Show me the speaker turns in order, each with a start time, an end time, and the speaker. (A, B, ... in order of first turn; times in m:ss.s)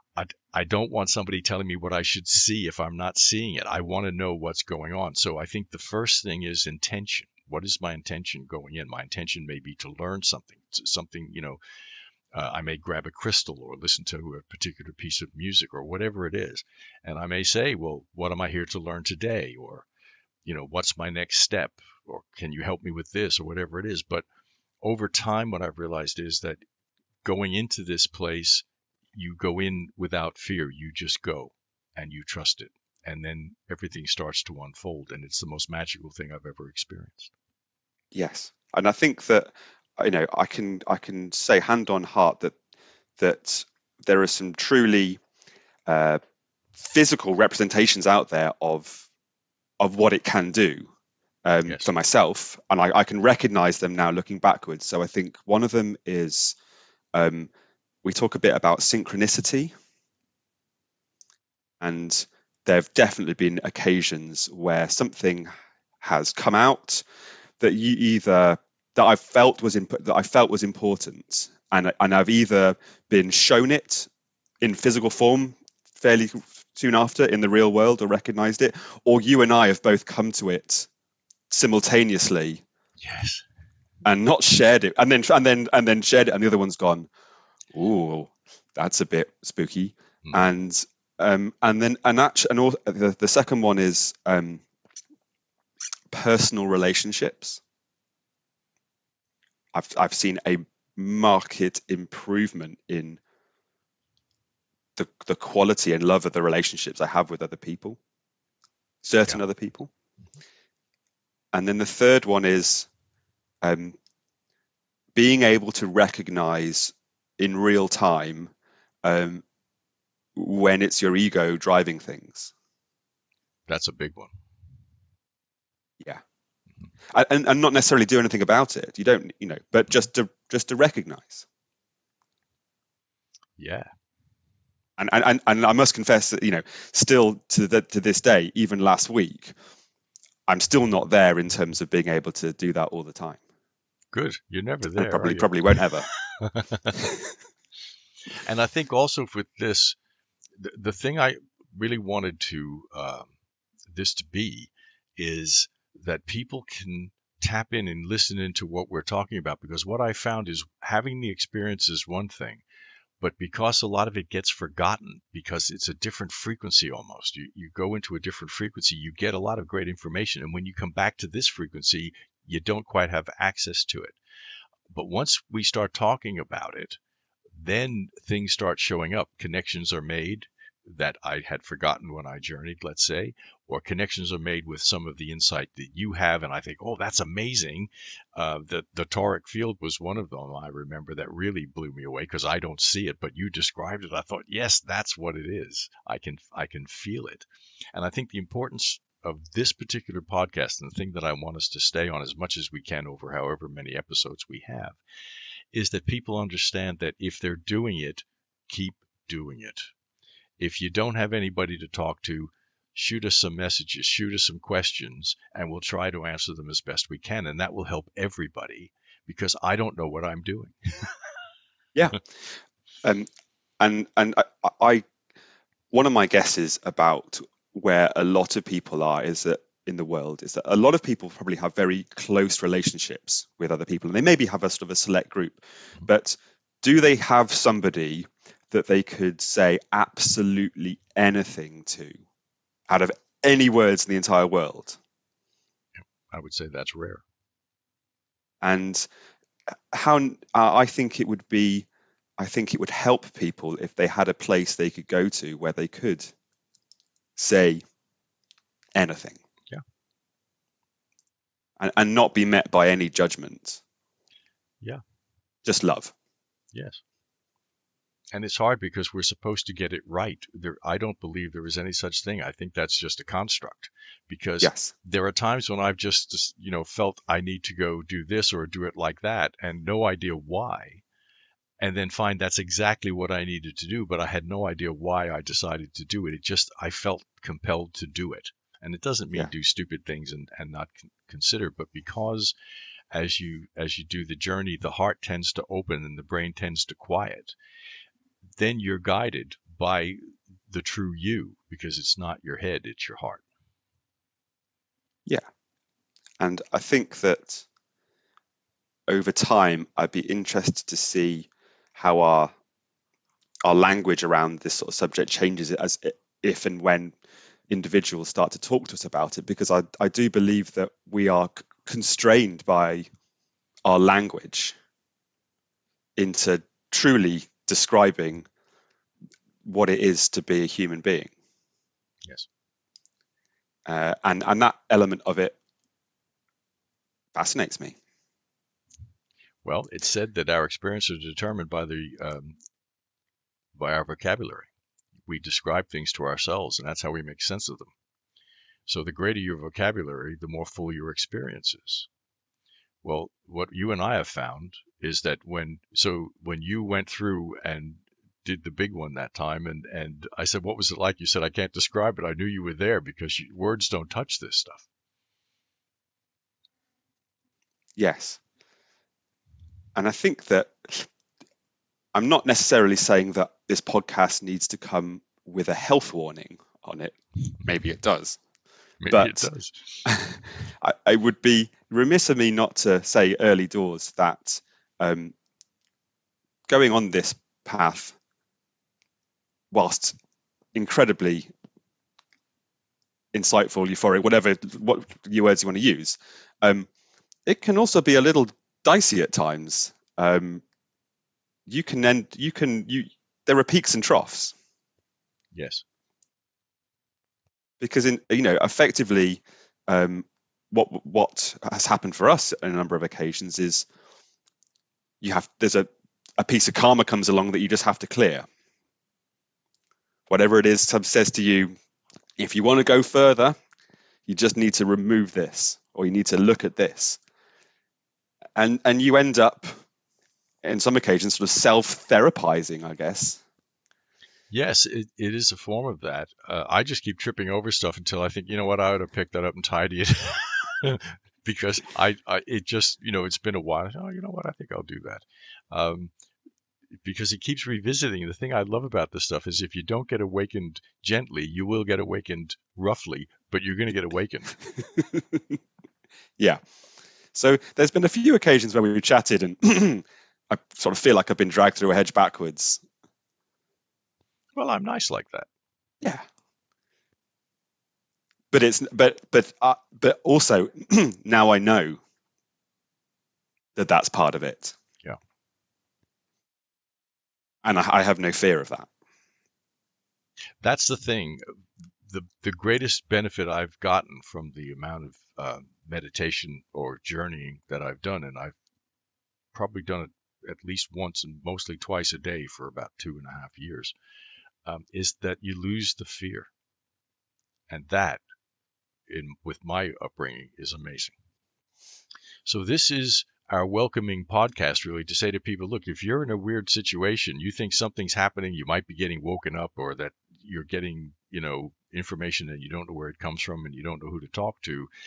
0:00.2-0:11.6 A
0:12.3-0:19.9 A
0:20.4-0:24.2 A
0:24.8-0:26.6 A
0:27.2-0:37.3 A
0:38.1-0:42.6 B
0:43.2-0:45.2 B
0:45.8-0:46.2 B
0:46.8-0:49.0 B
0:49.8-0:50.9 B
0:51.4-0:56.6 B
0:57.1-0:57.5 B
0:58.0-0:59.7 B
1:01.8-1:05.5 B
1:06.0-1:07.0 B
1:07.6-1:14.1 B
1:14.6-1:20.9 B
1:21.5-1:22.6 B
1:23.0-1:23.4 A
1:24.0-1:27.1 B
1:27.7-1:34.6 B
1:30.2-1:30.5 A
1:36.1-1:37.6 B
1:39.7-1:43.2 B
1:45.0-1:48.0 B
1:49.0-1:49.9 B
1:51.5-1:52.9 B
1:53.6-1:54.0 B
1:55.1-1:58.5 B
1:59.0-1:59.4 B
2:00.4-2:02.5 B
2:03.7-2:04.3 A
2:07.1-2:11.4 B
2:13.6-2:13.9 A
2:15.0-2:19.5 B
2:20.5-2:23.4 B
2:24.1-2:27.0 A
2:25.0-2:26.1 B
2:28.4-2:30.0 A
2:30.6-2:33.3 A
2:33.9-2:42.6 A
2:43.2-2:54.2 A
2:54.9-2:57.0 A
2:57.6-3:25.0 A
3:25.7-3:29.9 A
3:30.6-3:41.1 A
3:41.9-3:42.2 B
3:43.0-3:43.3 B
3:43.8-3:45.0 B
3:45.9-4:02.2 B
4:02.9-4:05.0 B
4:06.0-4:07.2 A
4:08.6-4:09.0 B
4:09.9-4:11.9 B
4:12.4-4:16.3 B
4:17.4-4:17.8 B
4:19.0-4:19.4 B
4:21.8-4:23.8 B
4:25.6-4:26.1 B
4:26.7-4:27.0 A
4:28.3-4:41.0 A
4:34.6-4:34.9 B
4:41.8-4:52.5 A
4:53.1-4:57.5 A
4:58.6-5:00.2 A
5:00.7-5:03.4 A
5:06.4-5:07.6 B
5:09.1-5:12.5 B
5:13.6-5:17.1 B
5:17.7-5:23.1 B
5:23.8-5:24.7 B
5:26.2-5:28.4 B
5:29.6-5:31.3 B
5:33.8-5:35.6 B
5:37.3-5:38.0 B
5:39.6-5:42.6 A
5:43.7-5:44.7 A
5:45.2-5:47.9 A
5:48.9-5:52.1 A
5:53.0-6:04.9 A
6:08.0-6:08.4 B
6:09.9-6:11.1 B
6:12.1-6:18.4 B
6:19.0-6:20.1 A
6:19.1-6:19.5 B
6:20.0-6:25.3 B
6:26.7-6:28.2 B
6:29.7-6:30.1 B
6:30.7-6:31.5 B
6:33.3-6:36.9 B
6:37.4-6:40.6 B
6:41.7-6:44.5 B
6:45.5-6:45.8 A
6:47.8-6:53.9 B
6:55.2-6:58.5 B
7:00.3-7:01.7 B
7:02.4-7:03.6 B
7:04.3-7:07.2 B
7:08.6-7:09.7 B
7:10.6-7:13.4 B
7:14.5-7:26.1 A
7:27.0-7:34.6 A
7:35.0-7:35.6 B
7:37.3-7:42.8 B
7:44.6-7:45.5 A
7:48.5-7:52.0 B
7:53.8-7:54.7 B
7:57.6-7:58.9 B
8:00.6-8:01.4 A
8:02.0-8:08.6 A
8:09.5-8:13.9 A
8:14.6-8:16.5 A
8:17.7-8:18.2 A
8:19.1-8:21.2 A
8:22.4-8:34.9 A